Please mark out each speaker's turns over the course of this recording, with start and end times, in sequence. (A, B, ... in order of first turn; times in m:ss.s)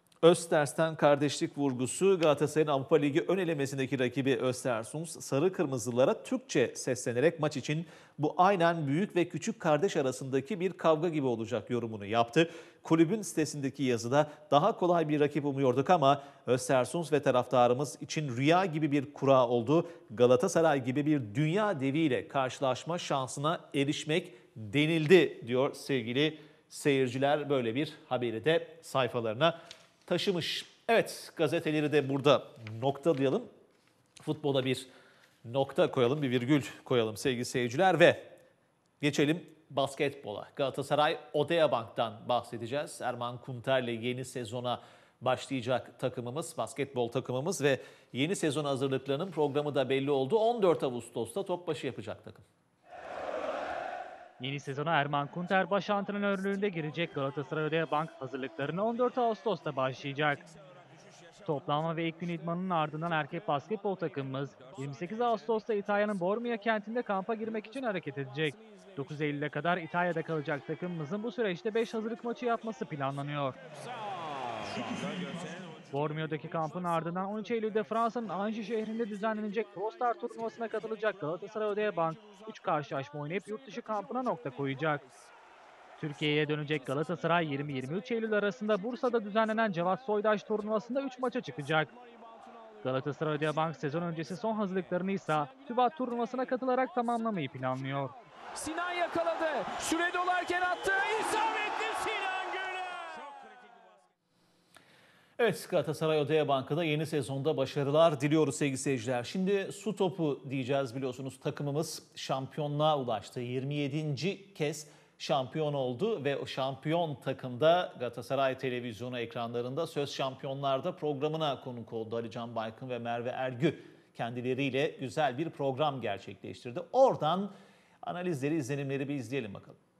0:00.2-0:33.5 A
0:34.2-0:34.9 A
0:35.4-0:38.3 A
0:39.0-0:52.4 A
0:54.4-1:00.4 B
1:01.4-1:13.6 B
1:14.6-1:15.4 C
1:15.9-1:25.0 B
1:26.0-1:31.9 B
1:32.8-1:38.1 B
1:38.5-1:43.3 C
1:45.4-2:09.8 A